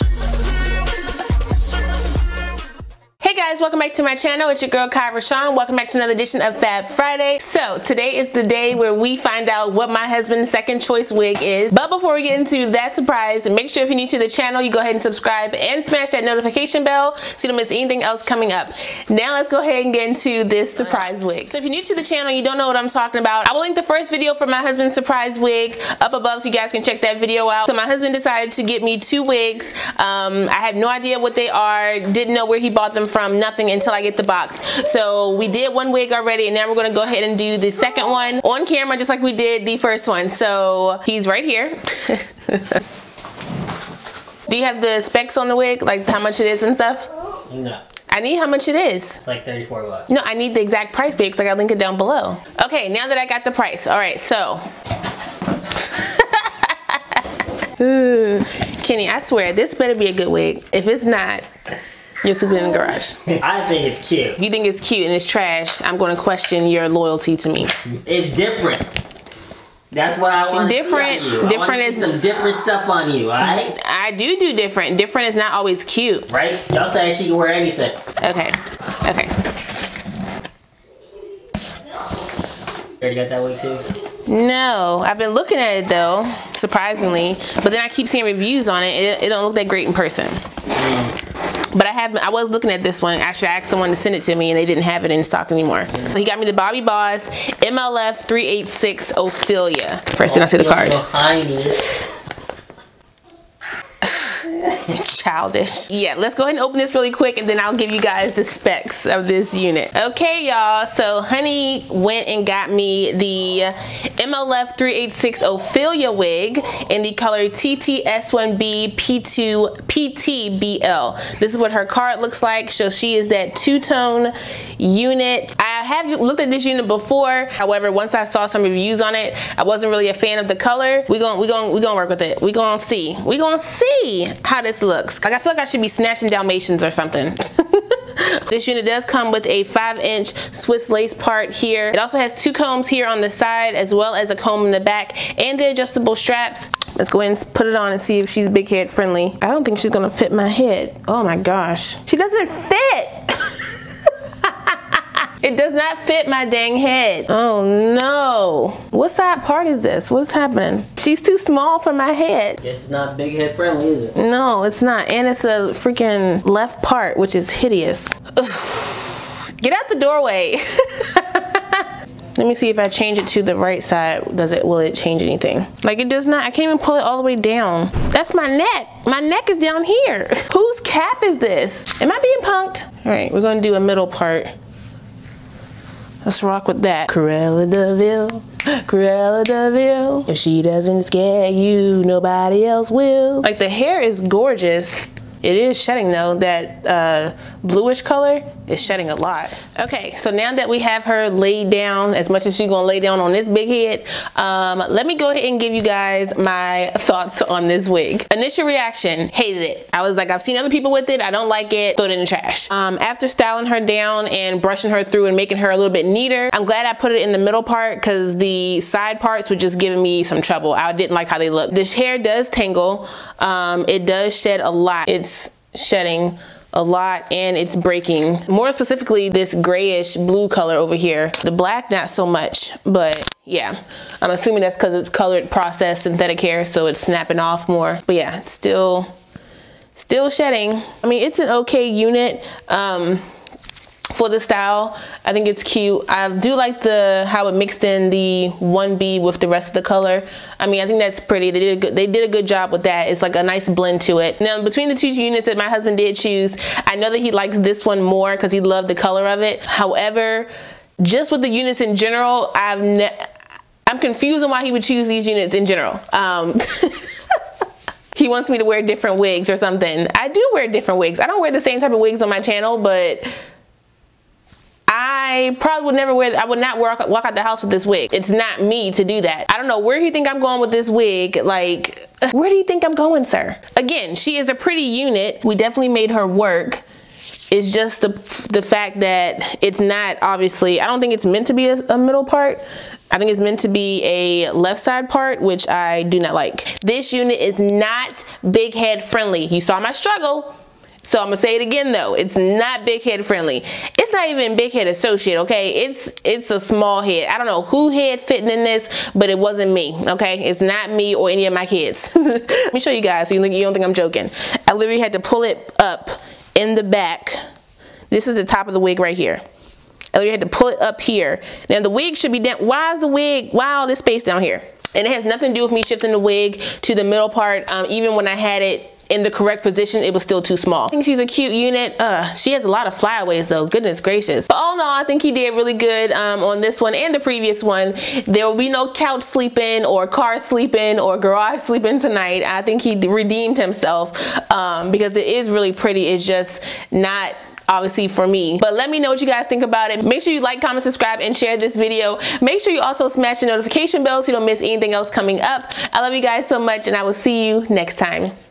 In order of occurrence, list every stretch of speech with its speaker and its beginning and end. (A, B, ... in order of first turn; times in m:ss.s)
0:03.2-0:42.8 A
0:20.8-0:21.1 B
0:44.5-0:47.1 A
0:47.5-0:47.8 B
0:48.1-0:49.2 A
0:49.2-0:50.1 B
0:50.1-0:54.6 A
0:55.6-1:01.4 A
1:02.2-1:03.4 A
1:03.3-1:04.4 B
1:04.4-1:07.7 A
1:08.0-1:08.9 B
1:09.9-1:13.7 B
1:10.4-1:12.2 A
1:13.4-1:16.3 A
1:16.3-1:18.0 B
1:18.2-1:19.3 A
1:23.0-1:23.8 B
1:24.2-1:30.4 A
1:30.7-1:31.1 B
1:31.7-1:41.0 A
1:40.2-1:41.9 B
1:44.0-2:42.6 A
2:42.6-2:44.1 B
2:44.1-3:04.5 A
3:06.2-3:59.1 A
4:00.0-4:03.2 A
4:04.1-4:23.3 A
4:23.8-4:27.1 A
4:28.1-4:33.2 A
4:34.9-4:46.8 A
4:47.5-5:00.5 A
5:01.0-5:17.4 A
5:18.1-5:19.4 A
5:20.1-5:58.3 A